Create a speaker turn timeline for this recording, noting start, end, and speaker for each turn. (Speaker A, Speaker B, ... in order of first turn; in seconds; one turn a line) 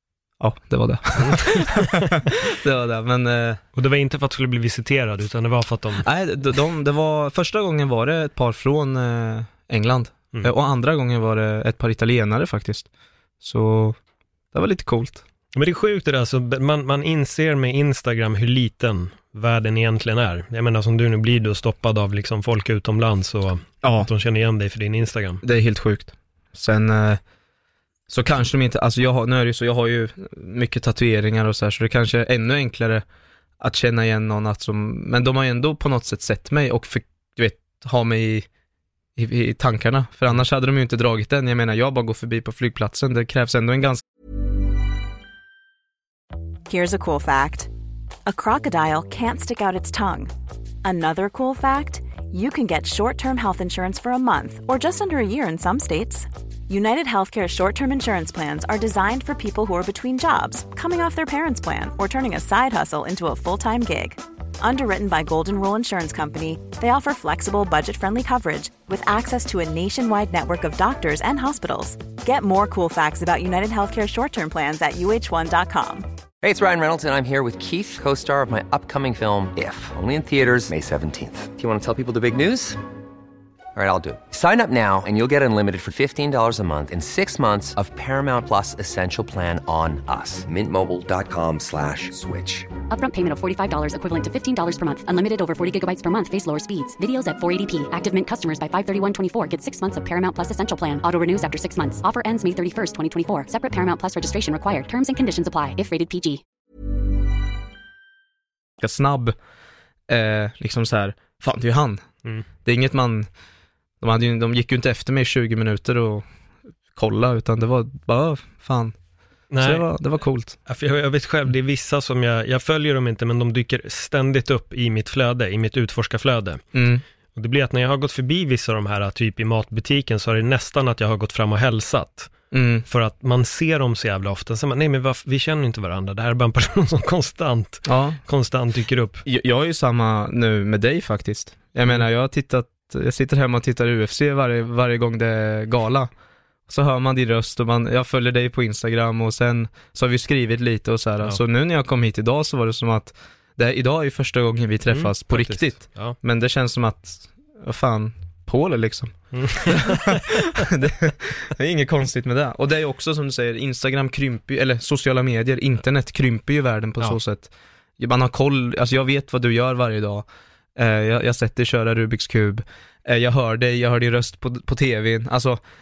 Speaker A: 0.4-3.6
Speaker B: 1.2-2.2
Speaker B: 3.7-6.0
Speaker A: 6.0-12.9
Speaker A: 13.4-14.0
Speaker A: 14.5-15.2
Speaker B: 15.5-25.4
Speaker A: 23.8-24.1
Speaker A: 25.4-27.2
Speaker A: 28.1-33.0
Speaker A: 33.6-38.5
Speaker A: 39.1-44.0
Speaker C: 46.7-47.7
Speaker C: 48.2-50.3
Speaker C: 50.8-76.1
Speaker D: 76.4-82.8
Speaker D: 83.7-92.7
Speaker E: 92.9-106.4
Speaker A: 108.8-109.4
Speaker A: 110.1-112.0
Speaker A: 112.6-113.3
Speaker A: 114.0-116.2
Speaker A: 116.9-118.9
Speaker B: 119.5-119.9
Speaker A: 119.6-120.6
Speaker B: 120.7-126.6
Speaker A: 126.7-127.0
Speaker B: 127.3-132.3
Speaker A: 132.5-132.8
Speaker B: 132.9-139.2
Speaker A: 137.9-138.2
Speaker A: 139.2-146.1
Speaker A: 146.7-170.2
Speaker B: 154.9-156.2
Speaker B: 159.3-160.7
Speaker A: 170.8-175.6